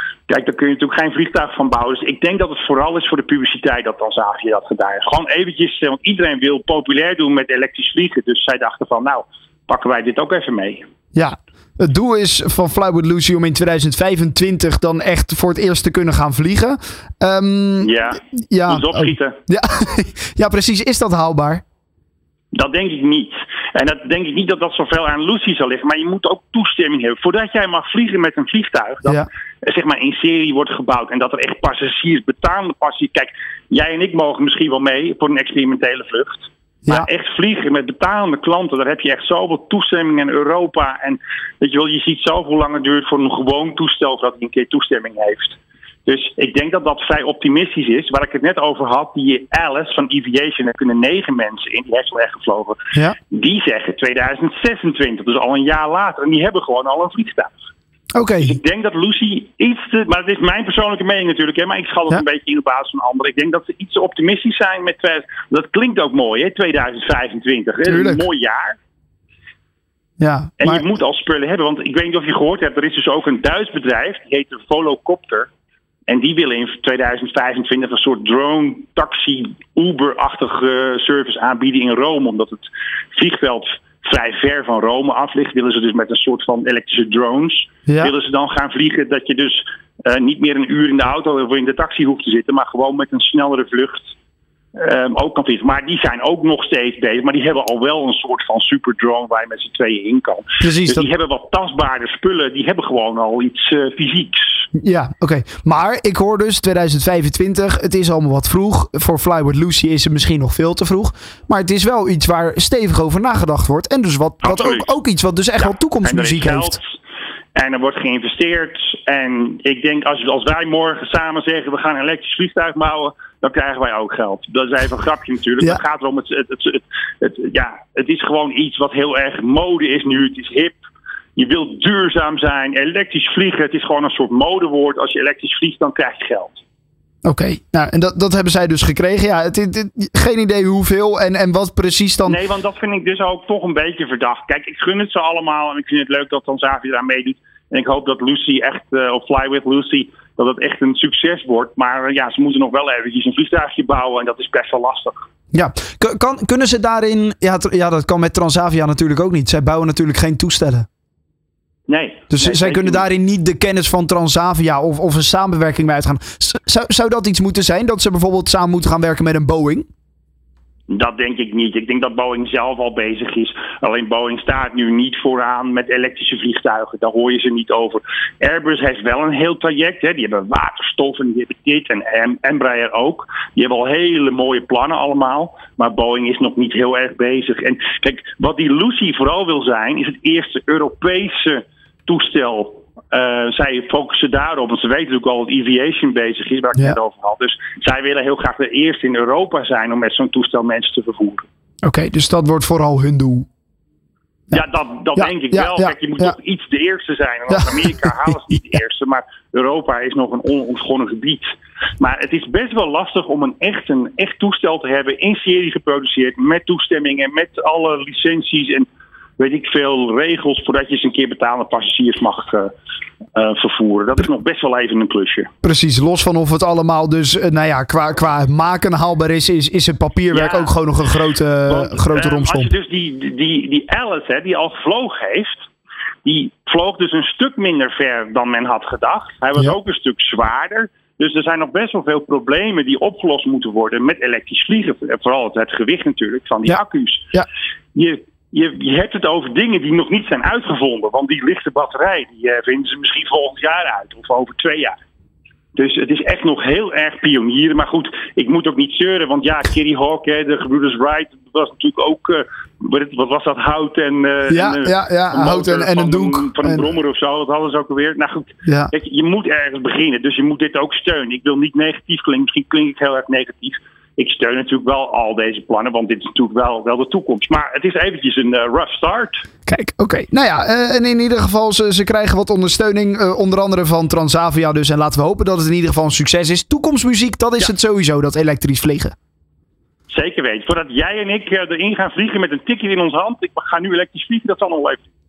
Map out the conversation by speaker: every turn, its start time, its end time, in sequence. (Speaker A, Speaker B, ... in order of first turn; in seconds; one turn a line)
Speaker A: 0.3-10.8
Speaker B: 11.1-17.9
Speaker A: 17.8-19.4
Speaker B: 18.5-21.6
Speaker A: 22.5-52.8
Speaker A: 53.3-57.5
Speaker B: 58.1-58.6
Speaker A: 58.4-68.8
Speaker B: 67.8-68.2
Speaker B: 70.2-70.8
Speaker A: 70.6-75.5
Speaker A: 76.1-94.1
Speaker B: 87.9-88.1
Speaker A: 94.7-104.7
Speaker B: 100.6-101.1
Speaker B: 104.7-116.8
Speaker A: 114.4-114.9
Speaker A: 115.6-116.9
Speaker A: 117.5-130.8
Speaker A: 131.3-136.6
Speaker B: 137.2-142.4
Speaker A: 142.2-155.2
Speaker B: 155.5-160.9
Speaker A: 161.9-163.1
Speaker B: 162.3-169.8
Speaker A: 170.9-201.4
Speaker B: 201.8-203.5
Speaker A: 204.5-211.5
Speaker B: 205.1-206.3
Speaker B: 207.5-208.1
Speaker A: 212.0-218.9
Speaker A: 219.4-222.7
Speaker A: 223.3-225.5
Speaker B: 225.6-232.7
Speaker A: 230.3-230.7
Speaker A: 231.7-235.7
Speaker A: 236.2-247.3
Speaker A: 247.9-254.9
Speaker A: 255.7-279.4
Speaker B: 264.5-266.9
Speaker B: 268.6-268.9
Speaker B: 279.7-289.1
Speaker A: 290.1-295.0